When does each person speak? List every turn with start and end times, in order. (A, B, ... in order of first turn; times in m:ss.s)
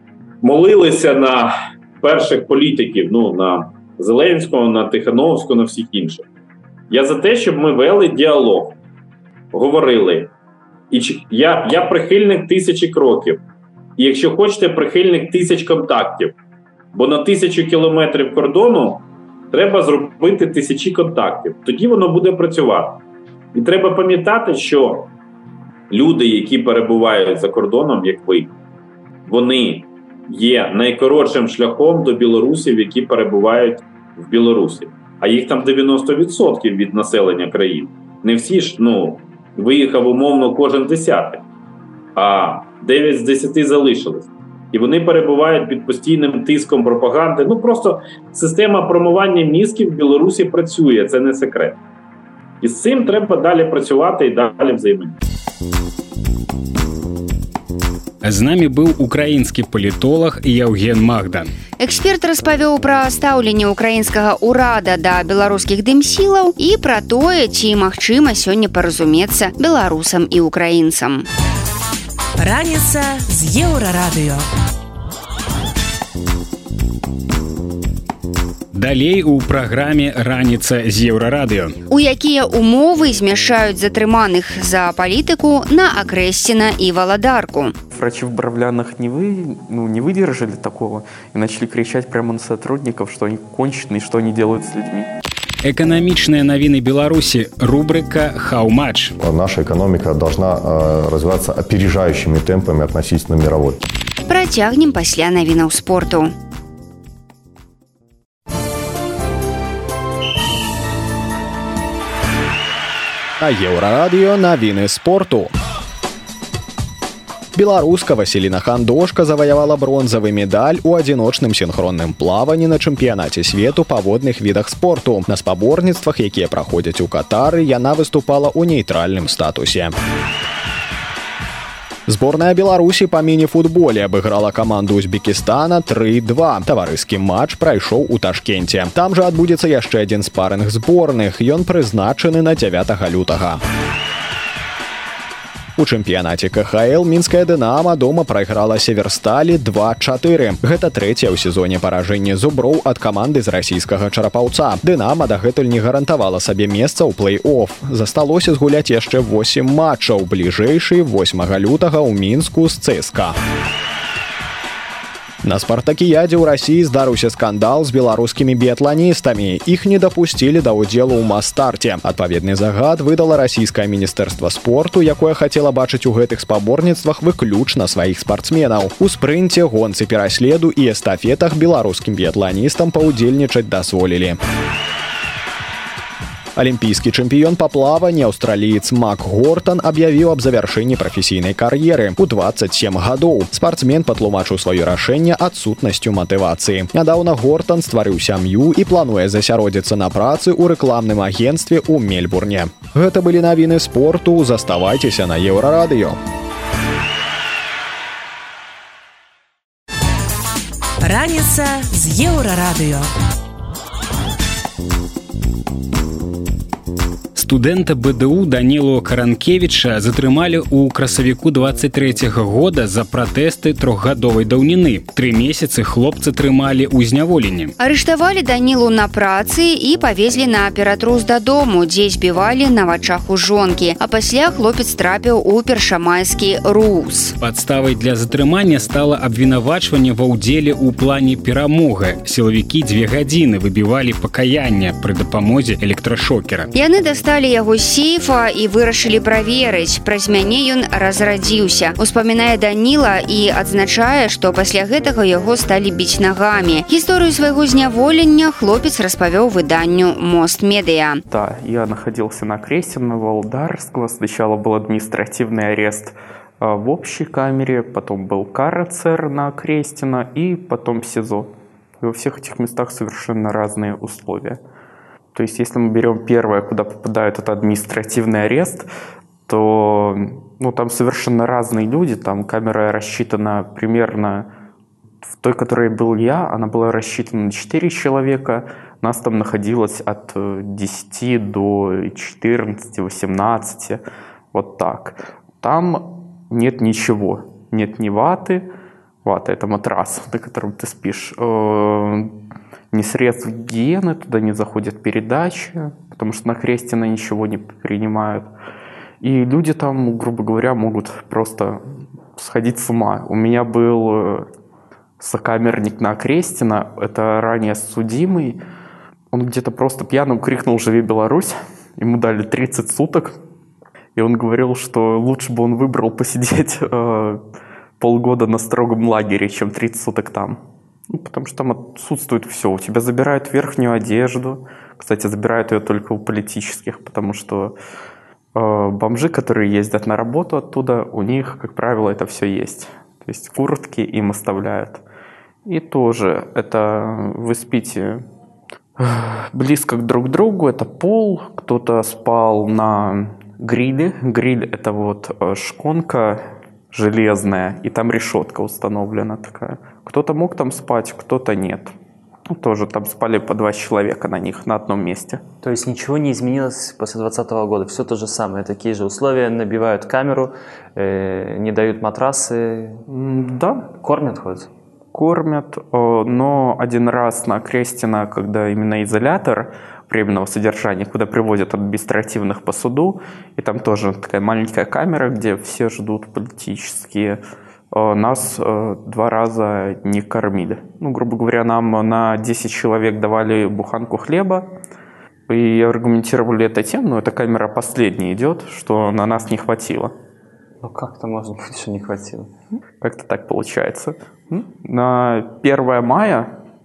0:00.4-0:06.2 A
0:06.9-0:08.8 A
0:09.5-0:10.3 A
0:10.9-0:13.4 A
0:14.0-0:16.3 A
0:16.9-0:23.0 A
0:23.5-0:25.1 A
0:25.9-0:28.5 A
0:29.2-0:41.4 A
0:42.2-0:51.8 A
0:52.6-0:55.2 A
0:58.2-1:01.5 B
1:01.8-1:11.2 C
1:12.4-1:14.5 D
1:18.7-1:21.8 B
1:21.9-1:27.7 C
1:27.9-1:35.1 E
1:35.6-1:39.1 B
1:39.2-1:43.8 F
1:44.3-1:46.3 C
1:53.4-1:55.5 G
1:57.5-2:09.9 G
2:12.1-2:23.6 G
2:25.8-2:43.3 G
2:45.4-3:04.4 G
3:06.6-3:26.2 G
3:31.0-3:33.1 D
3:37.4-3:47.7 B
3:47.8-3:57.4 C
3:57.4-4:06.7 B
4:06.7-4:21.2 C
4:21.3-4:34.6 E
4:35.3-4:38.8 E
4:39.5-4:44.5 E
4:45.3-4:54.0 E
4:54.5-4:58.6 E
4:59.2-5:02.3 E
5:02.9-5:08.5 E
5:09.2-5:11.8 E
5:12.3-5:14.4 E
5:15.2-5:18.6 E
5:19.3-5:23.3 E
5:24.2-5:27.4 E
5:28.0-5:30.6 E
5:31.1-5:37.7 E
5:38.6-5:45.0 E
5:45.6-5:48.2 E
5:49.0-6:01.9 E
6:02.5-6:05.4 E
6:05.6-6:13.0 H
6:13.1-6:13.9 E
6:13.9-6:14.7 H
6:15.1-6:27.4 E
6:27.9-6:34.7 E
6:35.5-6:40.1 E
6:40.8-6:42.5 H
6:43.0-6:46.5 E